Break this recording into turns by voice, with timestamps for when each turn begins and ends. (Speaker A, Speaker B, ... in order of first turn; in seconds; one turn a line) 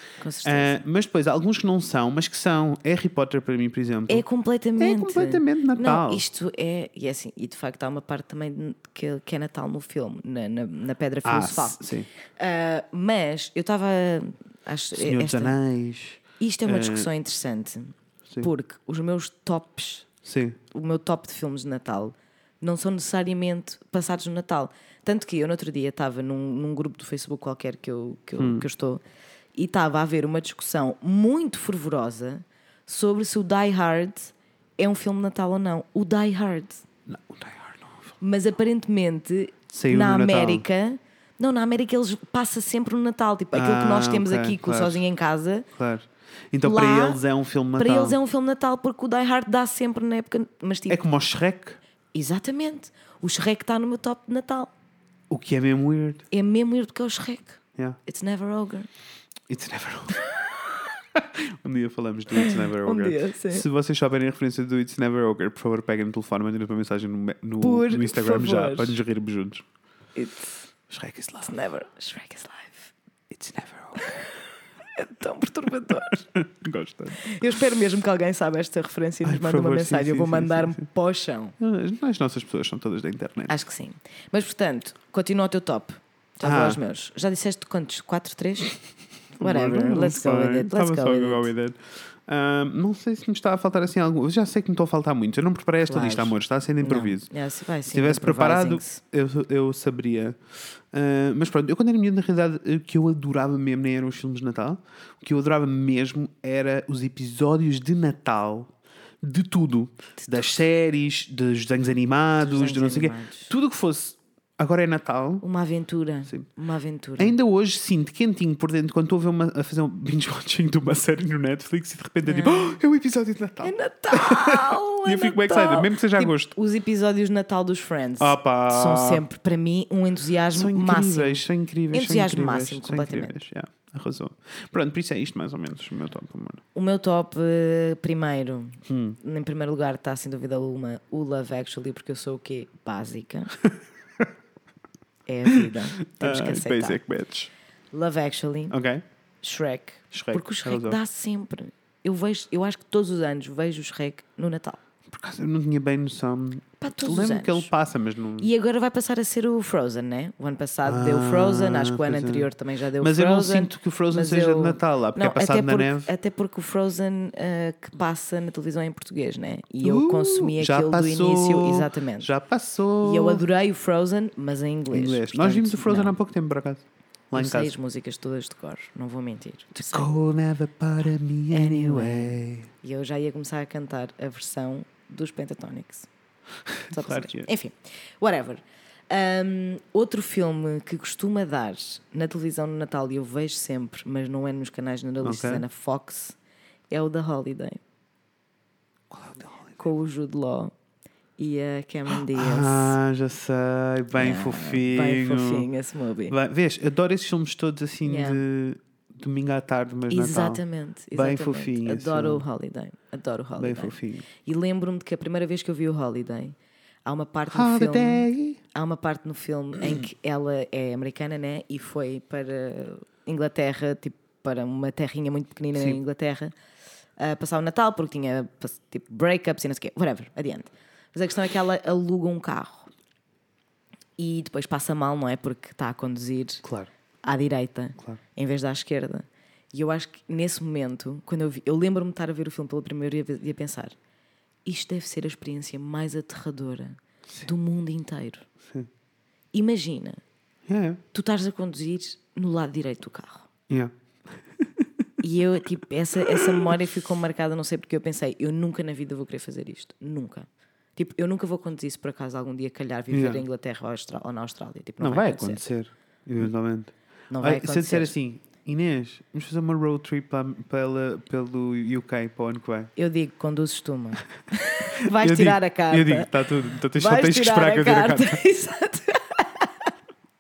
Speaker A: 0.2-0.8
Speaker B: 0.4-4.2
Speaker A: 4.1-11.8
Speaker B: 4.8-6.2
Speaker B: 11.2-12.1
Speaker A: 12.4-15.5
Speaker B: 14.9-17.1
Speaker A: 16.4-20.1
Speaker B: 20.2-20.6
Speaker A: 20.7-29.0
Speaker B: 28.4-28.6
Speaker A: 29.5-36.8
Speaker B: 37.1-38.2
Speaker A: 38.2-45.7
Speaker B: 39.7-40.6
Speaker B: 43.5-45.0
Speaker B: 45.7-48.2
Speaker A: 46.6-47.2
Speaker A: 47.8-51.0
Speaker B: 50.9-51.8
Speaker A: 52.1-54.7
Speaker B: 55.3-56.2
Speaker A: 56.3-58.9
Speaker B: 59.5-60.5
Speaker B: 61.1-69.6
Speaker A: 62.3-63.6
Speaker A: 67.6-69.0
Speaker A: 70.1-70.5
Speaker B: 70.9-71.5
Speaker A: 71.4-72.9
Speaker B: 73.3-74.1
Speaker A: 74.0-74.3
Speaker A: 74.9-76.2
Speaker B: 76.3-77.4
Speaker A: 77.2-81.5
Speaker B: 79.2-80.8
Speaker B: 81.6-83.5
Speaker A: 83.5-88.7
Speaker B: 86.4-86.8
Speaker A: 89.4-91.5
Speaker B: 89.4-97.3
Speaker A: 95.8-99.0
Speaker B: 97.9-100.4
Speaker B: 100.9-115.4
Speaker A: 110.2-110.5
Speaker A: 112.4-113.5
Speaker A: 115.4-117.3
Speaker B: 117.2-126.5
Speaker A: 122.2-122.8
Speaker A: 123.6-133.4
Speaker B: 128.2-129.2
Speaker B: 130.5-136.6
Speaker A: 136.7-143.5
Speaker B: 138.9-139.2
Speaker A: 145.2-147.0
Speaker B: 145.5-147.5
Speaker A: 147.9-148.7
Speaker B: 148.7-149.0
Speaker A: 149.4-154.8
Speaker B: 150.1-151.0
Speaker B: 155.1-158.5
Speaker A: 156.8-157.7
Speaker A: 158.4-172.3
Speaker B: 160.8-166.1
Speaker B: 169.8-173.4
Speaker A: 173.0-176.2
Speaker B: 174.9-177.7
Speaker A: 177.3-180.1
Speaker B: 179.7-182.7
Speaker A: 181.5-186.1
Speaker B: 186.7-187.5
Speaker A: 186.9-196.3
Speaker B: 195.2-195.6
Speaker A: 196.9-197.8
Speaker B: 199.1-199.8
Speaker A: 199.8-200.7
Speaker A: 201.4-203.0
Speaker B: 202.1-205.7
Speaker A: 204.1-206.3
Speaker B: 206.3-210.6
Speaker A: 208.0-208.4
Speaker A: 210.1-226.5
Speaker B: 211.1-212.4
Speaker B: 213.6-214.3
Speaker B: 217.5-218.6
Speaker B: 225.7-226.0
Speaker A: 227.2-232.9
Speaker A: 234.2-236.6
Speaker B: 236.6-236.9
Speaker A: 237.2-243.9
Speaker A: 244.7-248.4
Speaker A: 249.5-250.2
Speaker B: 250.7-251.0
Speaker A: 251.1-253.5
Speaker B: 254.6-254.9
Speaker A: 255.2-265.6
Speaker B: 256.2-256.7
Speaker B: 263.1-263.4
Speaker B: 265.0-272.9
Speaker A: 267.3-268.1
Speaker A: 272.9-276.3
Speaker B: 275.1-278.4
Speaker A: 276.9-279.9